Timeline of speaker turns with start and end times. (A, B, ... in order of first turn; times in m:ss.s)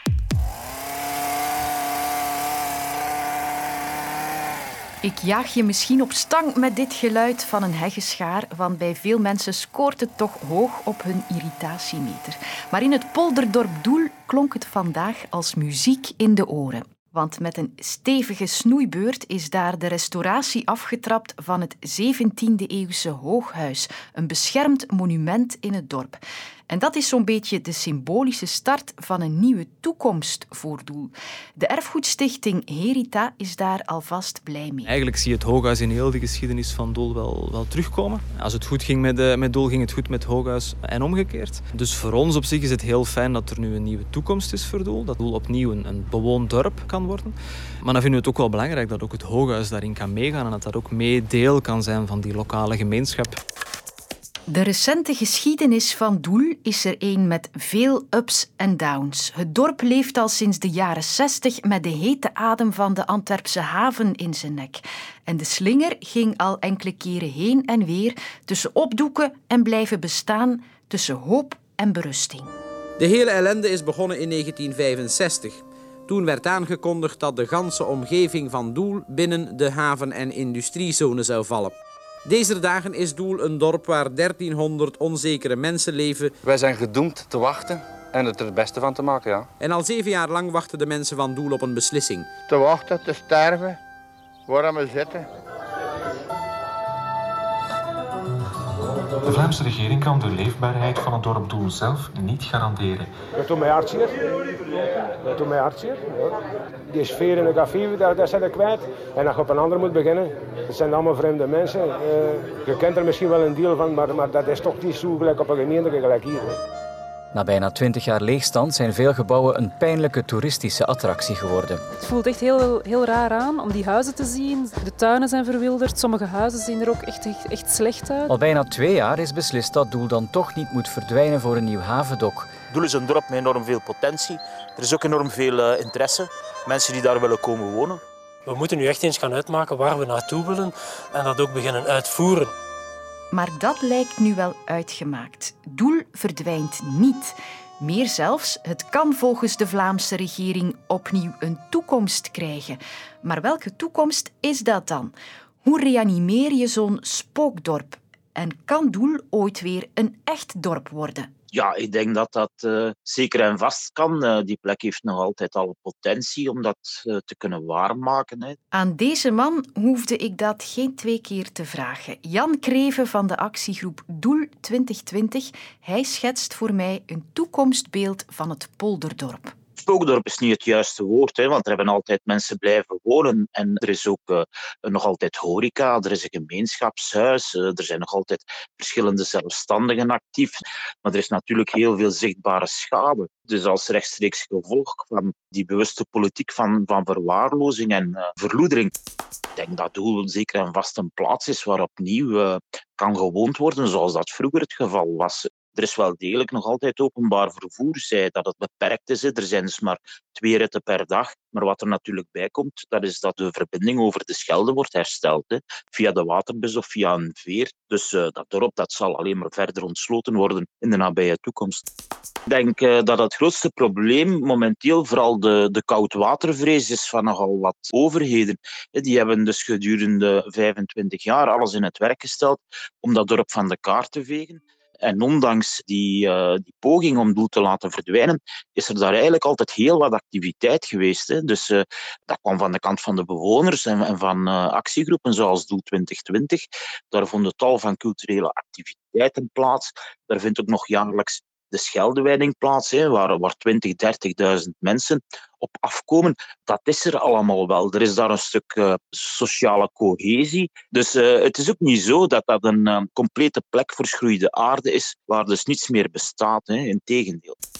0:05.0-0:35.0 A
0:34.9-0:53.4 B
0:54.5-1:12.5 A
1:13.0-1:26.4 C
1:26.4-1:29.5 D
1:29.6-1:32.4 C
1:32.5-1:33.8 E
1:34.5-1:35.2 E
1:39.2-1:43.1 F
1:43.4-1:44.2 G
1:45.2-1:46.3 G
1:46.9-1:56.6 G
1:57.3-2:01.8 H
2:02.0-2:08.3 I
2:08.2-2:12.5 H
2:12.7-2:18.0 J
2:18.4-2:22.5 K
2:23.3-2:41.3 A
2:41.5-2:48.6 J
2:48.7-2:59.5 A
2:59.8-3:18.9 J
3:19.6-3:41.8 J
3:42.5-4:27.6 J